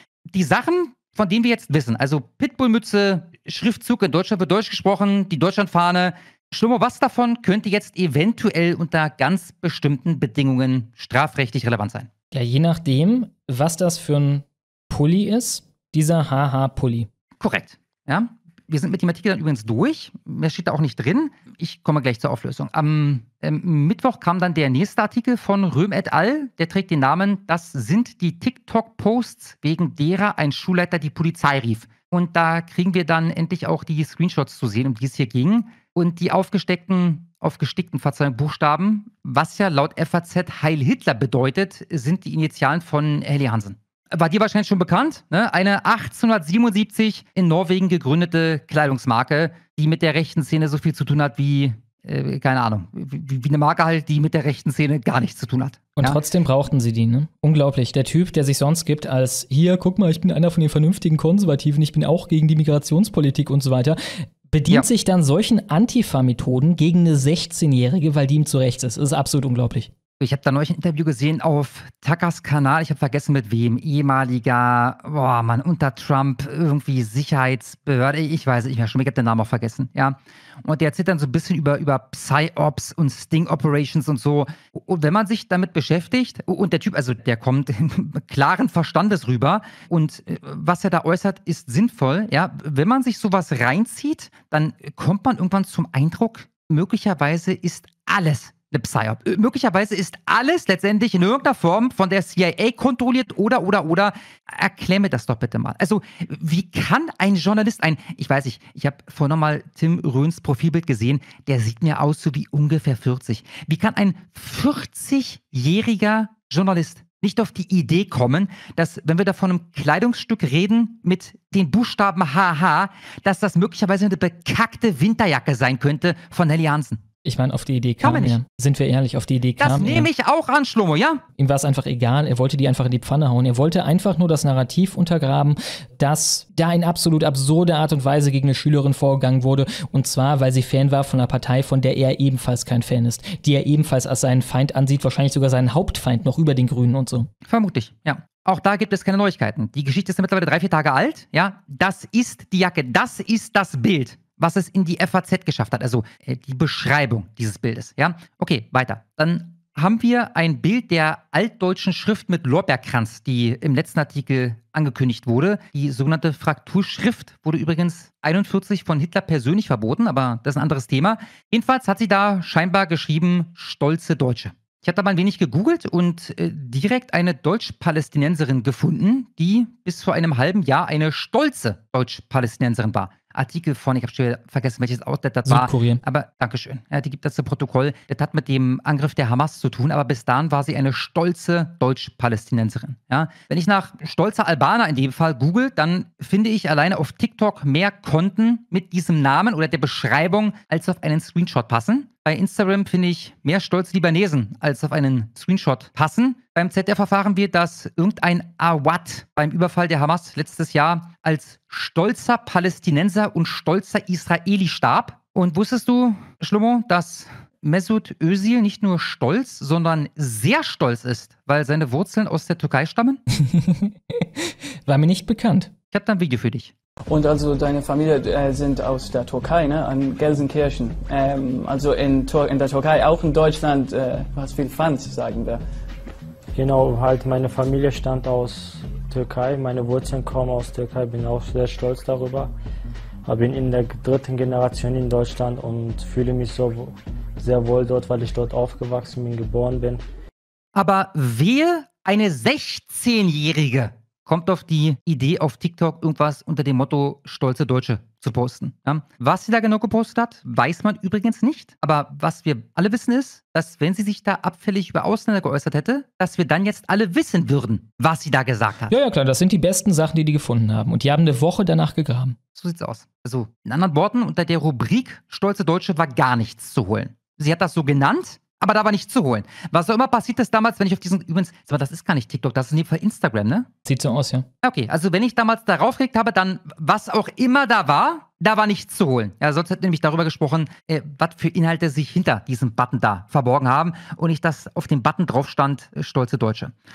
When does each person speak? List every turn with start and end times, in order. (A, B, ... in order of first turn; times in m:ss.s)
0:00.3-0:12.1 A
0:12.3-0:17.1 B
0:17.4-0:56.2 A
0:56.0-1:04.0 B
1:04.5-1:09.9 B
1:10.2-2:07.0 A
2:07.2-2:10.1 B
2:08.0-2:08.4 A
2:09.6-2:11.2 A
2:11.4-2:27.3 B
2:27.4-3:43.2 A
3:05.4-3:06.0 B
3:43.3-3:45.7 B
3:45.9-3:46.7 A
3:47.1-3:55.6 C
3:56.5-4:02.5 D
4:03.2-4:10.0 D
4:10.7-4:28.9 A
4:28.9-4:32.4 B
4:32.5-4:43.7 A
4:43.8-4:44.4 B
4:44.6-4:56.7 A